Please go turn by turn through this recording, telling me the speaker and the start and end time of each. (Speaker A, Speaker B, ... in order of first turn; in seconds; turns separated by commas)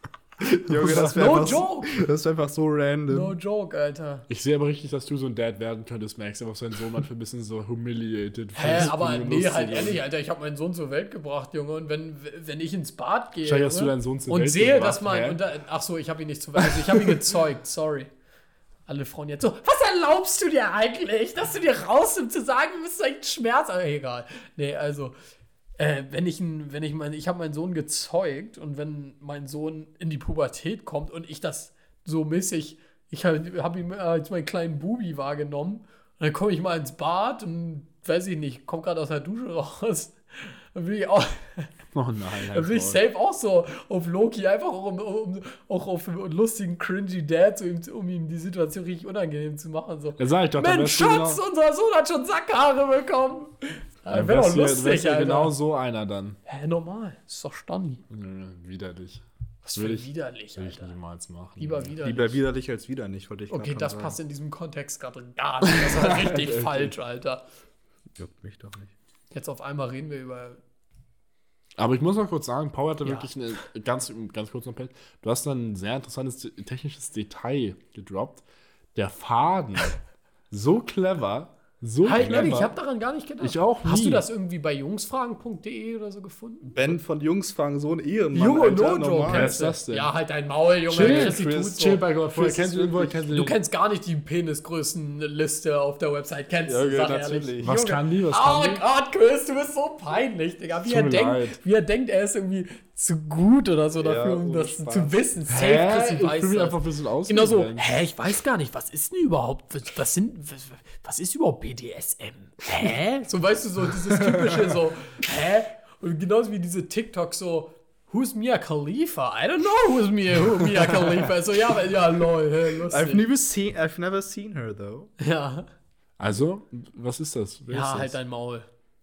Speaker A: 0.4-1.5, Speaker B: 0.4-3.4, Speaker C: 0.9-2.0, Speaker C: 3.1-4.2, Speaker A: 4.3-10.0, Speaker C: 8.5-18.1, Speaker A: 13.4-15.4, Speaker A: 16.6-17.1, Speaker C: 18.9-25.1, Speaker C: 25.8-41.7, Speaker A: 41.9-43.0, Speaker C: 42.5-55.5, Speaker A: 50.2-51.4, Speaker A: 54.1-56.4, Speaker C: 56.5-58.0, Speaker A: 58.1-59.2, Speaker C: 59.6-60.9, Speaker A: 59.8-61.9, Speaker C: 61.6-62.4, Speaker B: 62.0-64.2, Speaker C: 63.5-67.4, Speaker A: 65.7-66.9, Speaker B: 68.2-68.9, Speaker C: 69.3-70.6, Speaker A: 71.8-78.4, Speaker C: 73.0-73.3, Speaker A: 78.9-80.0, Speaker A: 80.5-82.7, Speaker C: 82.0-86.9, Speaker B: 82.2-82.5, Speaker A: 83.4-84.2, Speaker B: 86.6-89.6, Speaker C: 88.3-123.2, Speaker A: 89.2-90.1, Speaker A: 90.9-93.6, Speaker B: 90.9-91.8, Speaker B: 92.3-93.2, Speaker B: 96.7-97.8, Speaker A: 97.6-98.8, Speaker A: 100.8-101.6, Speaker B: 104.0-105.2, Speaker A: 105.5-108.0, Speaker A: 114.1-114.8, Speaker B: 122.9-125.1, Speaker C: 125.2-125.7, Speaker A: 126.2-128.2, Speaker C: 127.7-128.7